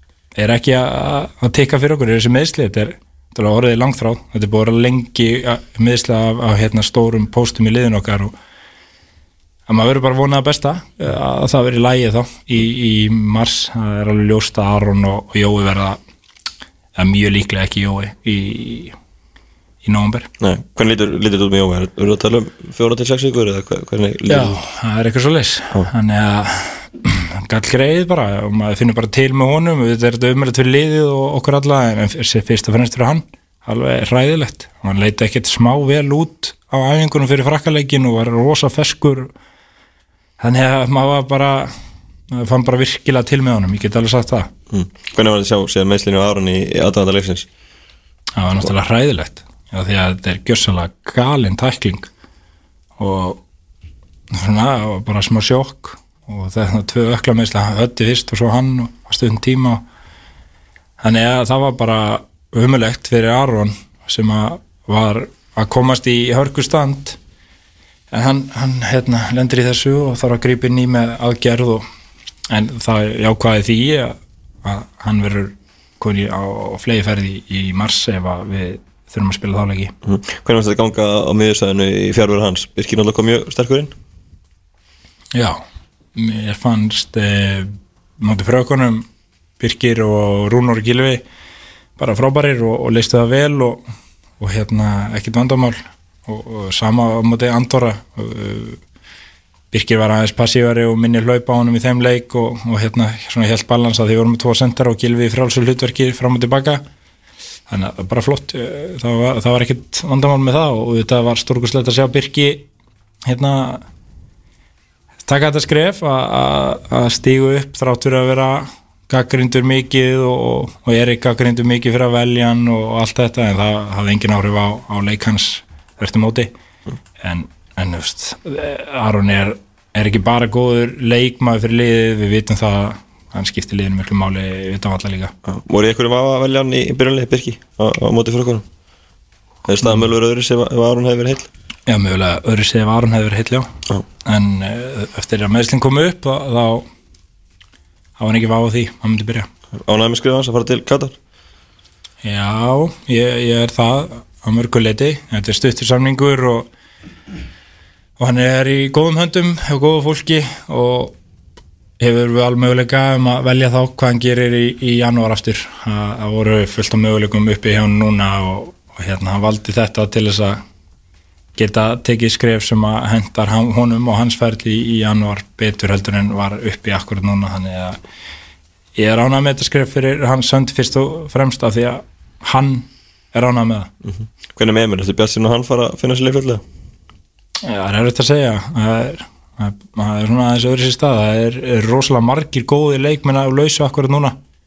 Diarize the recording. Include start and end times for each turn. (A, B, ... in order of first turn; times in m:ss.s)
0:00.3-0:08.3 A
0:09.7-0:16.0 A
0:17.0-0:18.9 A
0:19.8-0:20.3 A
0:20.4-0:24.6 B
0:24.3-0:39.3 A
0:40.4-0:41.7 A
0:42.3-0:44.5 A
0:44.7-0:47.5 B
0:48.4-0:52.1 A
0:53.0-0:53.4 A
0:54.3-0:59.8 A
1:01.0-1:07.2 A
1:08.1-1:11.8 A
1:12.5-1:19.9 A
1:20.0-1:23.9 B
1:25.3-1:25.6 A
1:26.2-1:29.0 A
1:29.6-1:31.2 A
1:32.0-1:33.8 A
1:34.4-1:38.8 A
1:39.7-1:46.8 A
1:47.7-1:52.6 A
1:53.2-1:53.8 A
1:55.2-2:06.5 A
2:07.2-2:15.3 A
2:15.4-2:18.6 B
2:19.6-2:21.5 B
2:21.9-2:23.7 A
2:24.2-2:26.9 A
2:28.2-2:29.5 A
2:29.7-2:31.2 B
2:32.2-2:36.7 A
2:38.2-2:41.1 A
2:42.0-2:50.6 A
2:51.6-2:58.0 A
2:59.0-3:03.9 A
3:04.0-3:06.6 B
3:07.6-3:14.4 A